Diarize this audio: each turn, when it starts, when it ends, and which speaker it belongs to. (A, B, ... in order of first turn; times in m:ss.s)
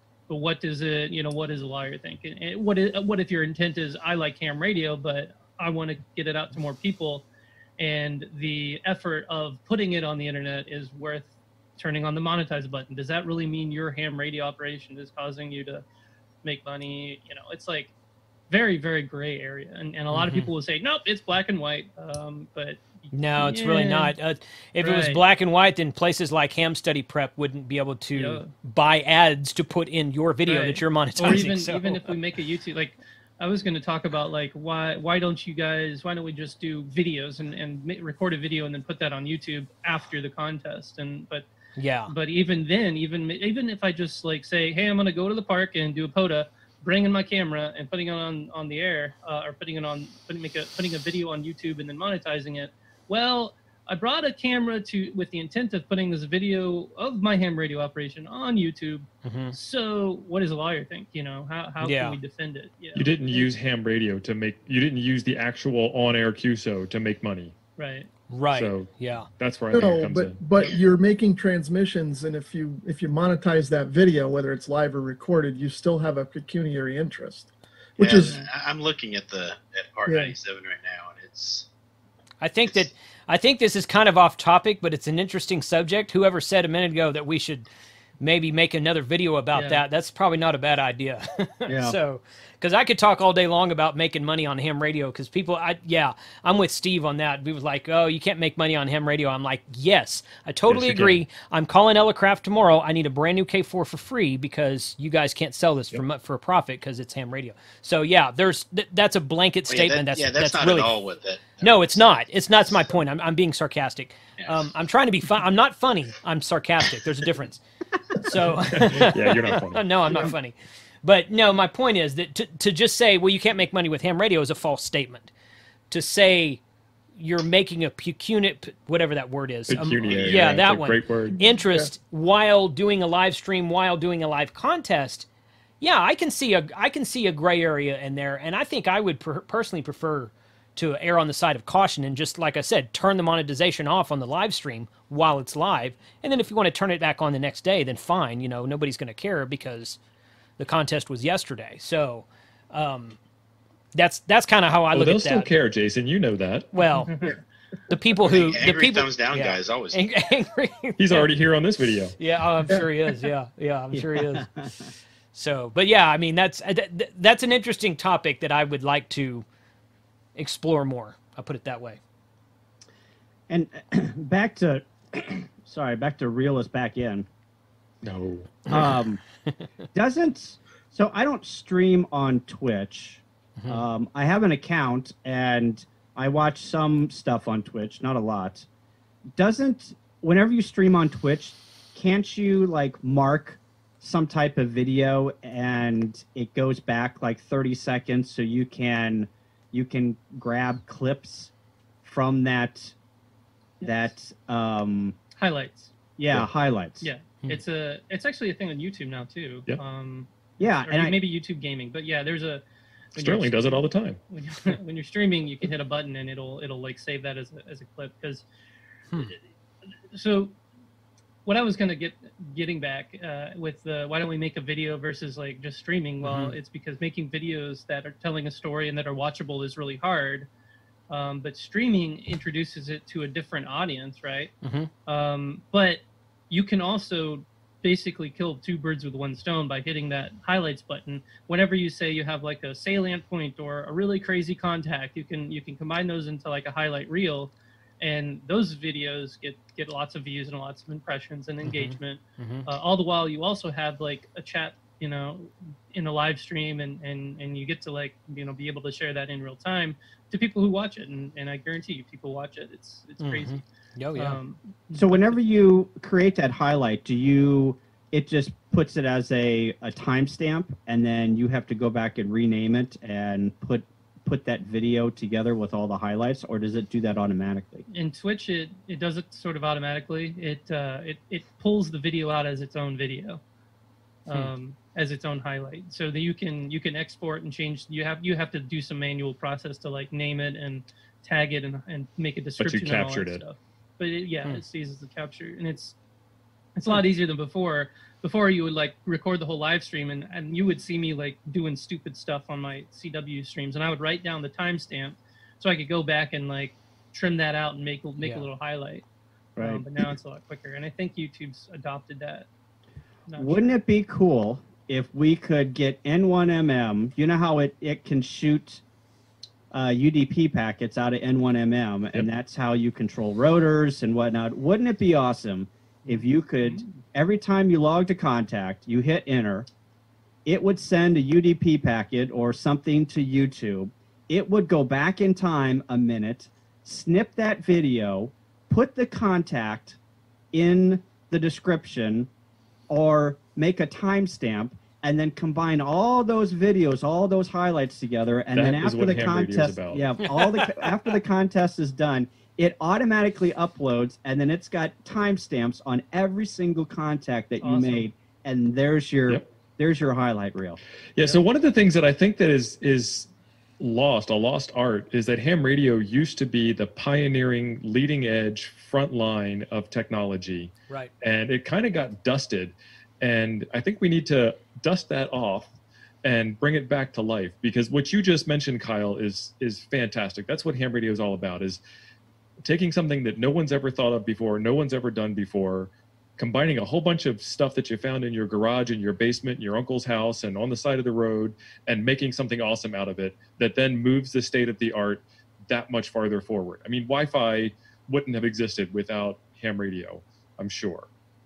0:00.3-0:07.2 A
0:07.8-0:11.3 A
0:11.8-0:15.8 A
0:16.4-0:17.9 A
0:18.5-0:24.1 A
0:20.1-0:20.5 B
0:23.1-0:32.1 B
0:24.8-0:25.2 A
0:28.2-0:28.5 A
0:30.5-0:41.5 A
0:41.8-0:42.1 B
0:42.1-1:03.5 A
0:59.2-0:59.6 B
1:01.8-1:02.2 B
1:02.9-1:07.5 C
1:07.8-1:08.1 A
1:08.3-1:09.3 B
1:08.5-1:10.8 C
1:09.7-1:18.4 D
1:18.0-1:21.7 E
1:18.2-1:18.5 A
1:20.1-1:20.3 D
1:22.4-1:27.7 B
1:28.2-1:51.0 B
1:29.6-1:29.8 A
1:31.7-1:32.0 F
1:40.7-1:41.2 C
1:49.7-1:52.7 E
1:51.6-1:57.6 B
1:54.4-1:54.7 E
1:58.2-2:05.3 B
1:58.7-1:59.9 C
2:05.9-2:06.6 B
2:07.2-2:15.3 B
2:09.7-2:11.4 C
2:10.1-2:10.6 E
2:11.5-2:11.9 D
2:15.8-2:30.0 B
2:30.6-2:33.2 B
2:34.0-2:35.5 B
2:34.9-2:36.9 C
2:36.7-2:37.2 B
2:37.9-2:41.3 B
2:38.2-2:40.0 E
2:41.0-2:42.2 C
2:42.2-2:44.5 B
2:43.9-2:44.7 F
2:45.3-2:49.5 B
2:50.4-2:52.0 B
2:53.5-2:57.3 F
2:58.0-2:58.8 C
2:58.7-2:59.2 F
2:59.9-3:08.7 F
3:03.6-3:03.8 B
3:09.4-3:21.5 F
3:22.0-3:23.0 F
3:23.8-3:24.1 A
3:23.8-3:25.2 F
3:25.4-3:25.9 A
3:26.2-3:27.1 F
3:27.0-3:32.6 A
3:30.6-3:31.2 F
3:33.2-3:34.2 C
3:33.2-3:38.4 A
3:40.1-3:40.6 A
3:41.4-3:50.5 A
3:46.2-3:46.6 B
3:51.1-3:54.5 A
3:54.6-3:54.9 B
3:55.1-4:23.6 A
4:11.6-4:12.7 B
4:23.2-4:24.4 B
4:24.2-4:25.3 A
4:24.9-4:37.9 F
4:37.9-4:43.4 A
4:44.3-4:56.0 A
4:52.6-4:53.4 C
4:56.8-5:09.0 A
5:08.2-5:08.5 B
5:09.6-5:09.8 F
5:09.6-5:12.5 A
5:13.3-5:13.8 A
5:13.4-5:18.8 F
5:19.7-5:29.7 F
5:26.0-5:26.9 A
5:30.5-5:40.0 F
5:40.5-5:42.3 F
5:42.9-6:00.8 F
5:48.5-5:50.1 C
5:50.2-5:51.2 B
5:57.6-5:58.1 A
6:01.2-6:15.7 C
6:16.2-6:21.8 C
6:22.6-6:41.1 C